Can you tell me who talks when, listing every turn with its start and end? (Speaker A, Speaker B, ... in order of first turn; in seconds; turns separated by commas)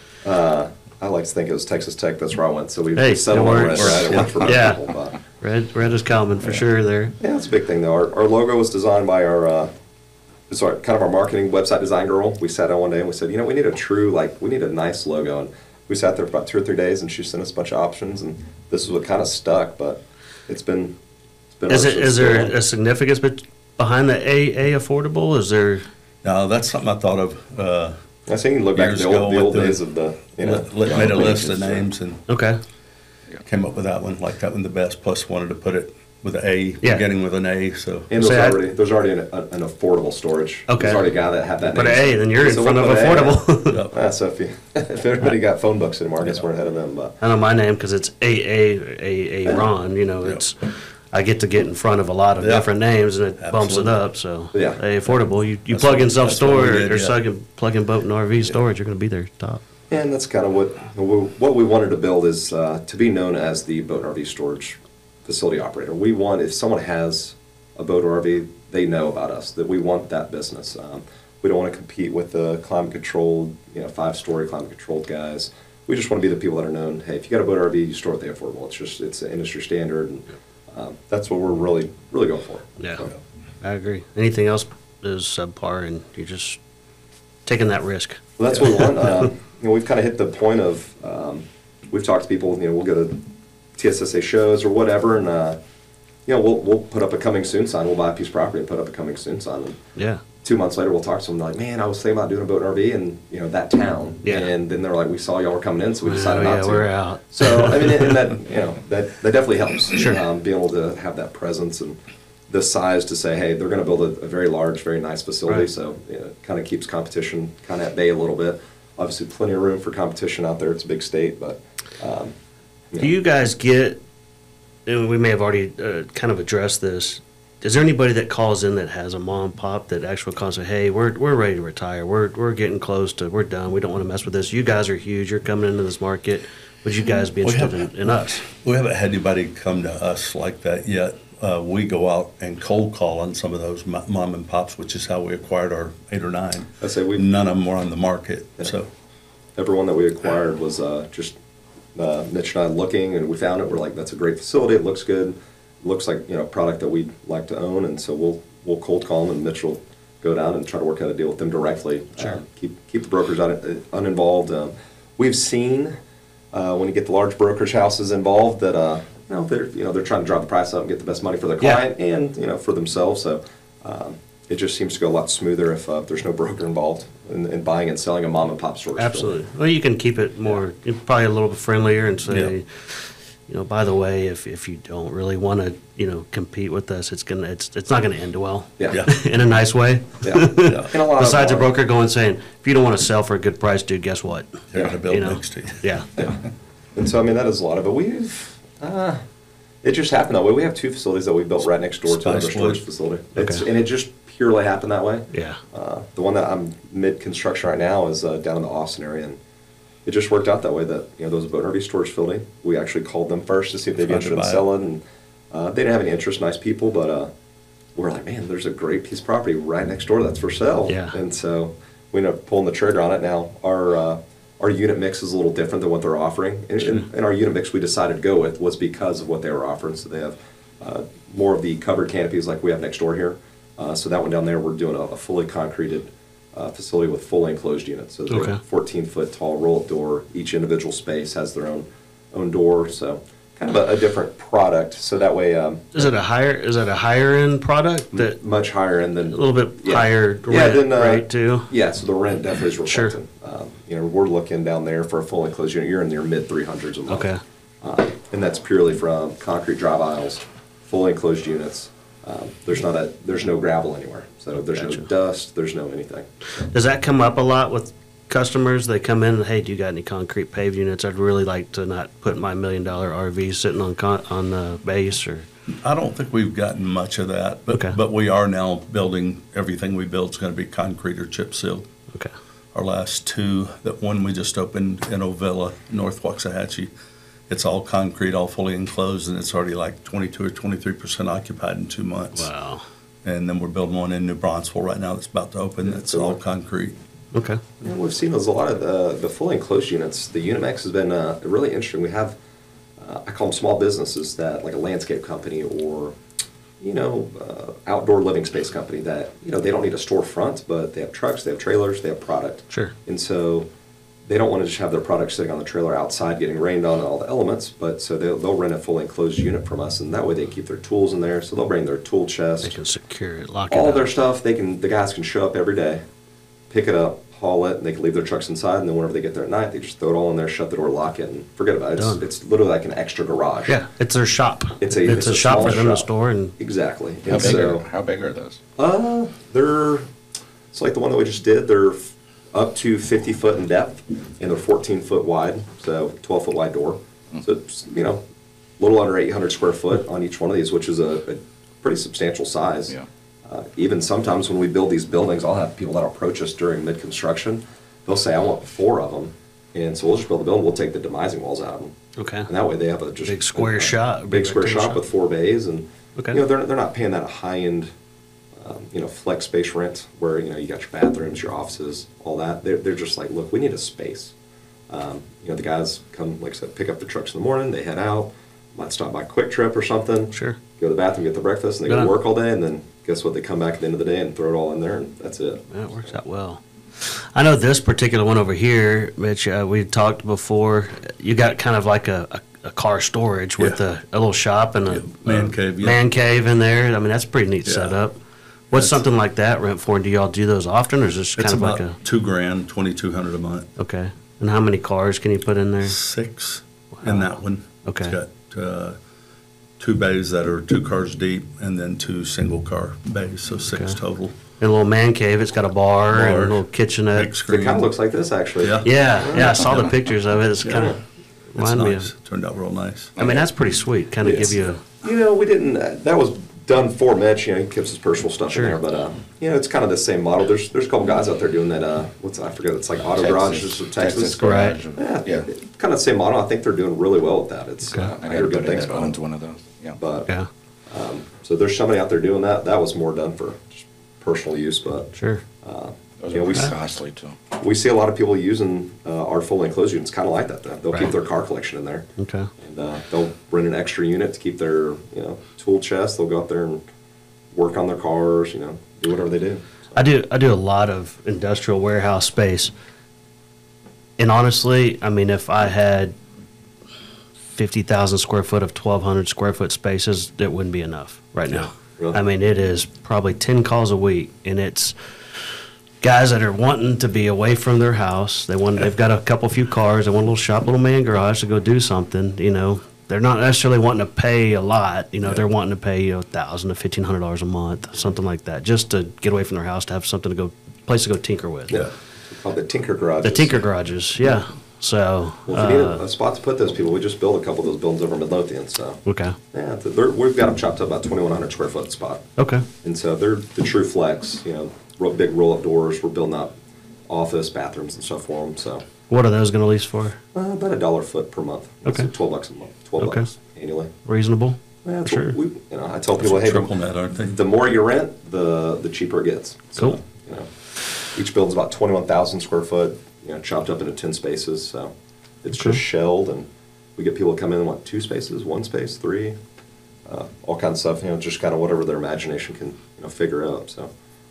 Speaker A: 0.2-5.2, Speaker B: 3.0-4.8, Speaker C: 3.7-4.7, Speaker B: 5.4-7.2, Speaker A: 7.2-9.7, Speaker A: 10.5-21.0, Speaker A: 21.6-22.6, Speaker B: 21.7-25.9, Speaker C: 26.2-28.0, Speaker A: 28.3-31.6, Speaker C: 28.7-29.8, Speaker C: 30.4-32.2, Speaker D: 30.9-31.8, Speaker B: 32.3-32.6, Speaker C: 33.4-38.1, Speaker A: 38.1-47.1, Speaker B: 38.2-38.6, Speaker B: 40.7-41.0, Speaker B: 41.7-43.8, Speaker C: 43.7-44.0, Speaker B: 47.2-59.6, Speaker C: 52.4-52.7, Speaker C: 53.4-53.9, Speaker A: 54.5-54.8, Speaker C: 55.7-57.1, Speaker A: 59.9-83.2, Speaker B: 82.8-83.0, Speaker B: 83.6-86.6, Speaker B: 87.5-89.0, Speaker A: 88.4-93.2, Speaker A: 93.8-95.6, Speaker A: 96.3-99.8, Speaker B: 100.0-100.2, Speaker A: 100.4-112.0, Speaker B: 104.2-104.5, Speaker B: 106.1-108.2, Speaker B: 109.9-110.2, Speaker A: 112.5-122.3, Speaker B: 123.0-124.0, Speaker B: 124.9-138.5, Speaker C: 137.4-137.8, Speaker C: 138.4-148.9, Speaker A: 146.8-147.2, Speaker A: 149.6-151.4, Speaker A: 151.9-165.9, Speaker A: 166.5-179.4, Speaker B: 179.0-196.1, Speaker A: 188.8-189.0, Speaker A: 190.2-191.7, Speaker C: 194.7-195.8, Speaker A: 196.9-199.2, Speaker A: 199.8-209.4, Speaker C: 202.1-202.8, Speaker B: 203.4-203.7, Speaker B: 205.3-205.6, Speaker A: 210.1-217.3, Speaker C: 214.0-214.7, Speaker A: 217.9-246.1, Speaker B: 220.9-221.2, Speaker B: 238.3-238.6, Speaker B: 245.9-248.4, Speaker A: 248.1-257.3, Speaker B: 249.3-251.7, Speaker B: 252.9-253.2, Speaker B: 257.1-257.4, Speaker A: 257.8-266.3, Speaker B: 264.7-265.1, Speaker B: 266.6-275.5, Speaker C: 275.7-281.9, Speaker B: 277.7-278.0, Speaker C: 282.7-286.9, Speaker C: 287.5-292.5, Speaker B: 292.3-292.9, Speaker C: 293.2-296.9, Speaker A: 295.8-296.4, Speaker B: 297.3-297.6, Speaker A: 297.8-302.4, Speaker A: 303.0-306.2, Speaker A: 306.8-313.7, Speaker B: 312.7-312.9, Speaker A: 314.3-322.8, Speaker B: 322.6-324.1, Speaker A: 323.7-326.0, Speaker A: 326.7-333.8, Speaker B: 332.0-332.2, Speaker B: 333.7-336.6, Speaker A: 334.8-337.9, Speaker D: 337.3-338.6, Speaker A: 338.8-340.1, Speaker A: 340.7-348.2, Speaker A: 348.8-352.9, Speaker A: 353.4-361.9, Speaker B: 362.2-362.5, Speaker A: 362.5-367.9, Speaker B: 363.3-365.0, Speaker B: 366.2-366.4, Speaker A: 368.6-374.3, Speaker A: 374.9-385.7, Speaker B: 380.3-380.6, Speaker B: 381.9-382.1, Speaker B: 385.7-398.2, Speaker C: 394.9-396.0, Speaker C: 397.6-397.9, Speaker B: 398.7-402.0, Speaker C: 398.7-399.0, Speaker C: 401.4-403.7, Speaker B: 403.8-405.9, Speaker C: 405.8-409.0, Speaker B: 407.0-408.2, Speaker C: 409.8-414.3, Speaker B: 413.7-414.0, Speaker B: 414.6-417.3, Speaker C: 416.1-416.6, Speaker C: 417.1-417.9, Speaker A: 417.5-419.6, Speaker C: 418.6-420.0, Speaker B: 418.8-421.0, Speaker D: 419.6-419.9, Speaker C: 420.6-420.9, Speaker A: 420.7-421.0, Speaker B: 421.6-422.1, Speaker C: 421.6-423.1, Speaker D: 423.2-423.5, Speaker B: 423.2-424.8, Speaker A: 425.0-439.2, Speaker B: 428.5-428.8, Speaker D: 433.1-435.5, Speaker B: 434.4-434.8, Speaker D: 438.0-440.0, Speaker A: 440.0-440.3, Speaker A: 440.9-446.8, Speaker B: 445.2-445.4, Speaker D: 446.2-447.4, Speaker A: 447.5-452.1, Speaker B: 452.2-452.5, Speaker A: 452.6-456.8, Speaker A: 457.5-460.1, Speaker B: 459.9-462.7, Speaker B: 464.2-466.1, Speaker B: 467.5-491.8, Speaker A: 491.7-493.7, Speaker B: 493.2-496.0, Speaker A: 495.5-499.0, Speaker B: 499.1-499.4, Speaker A: 499.5-506.5, Speaker B: 502.4-502.7, Speaker A: 507.1-508.9, Speaker B: 509.1-510.2, Speaker A: 510.3-513.9, Speaker B: 511.9-512.1, Speaker B: 513.0-513.3, Speaker B: 514.0-515.4, Speaker A: 514.8-529.4, Speaker C: 516.2-517.4, Speaker B: 525.5-525.8, Speaker A: 530.1-533.9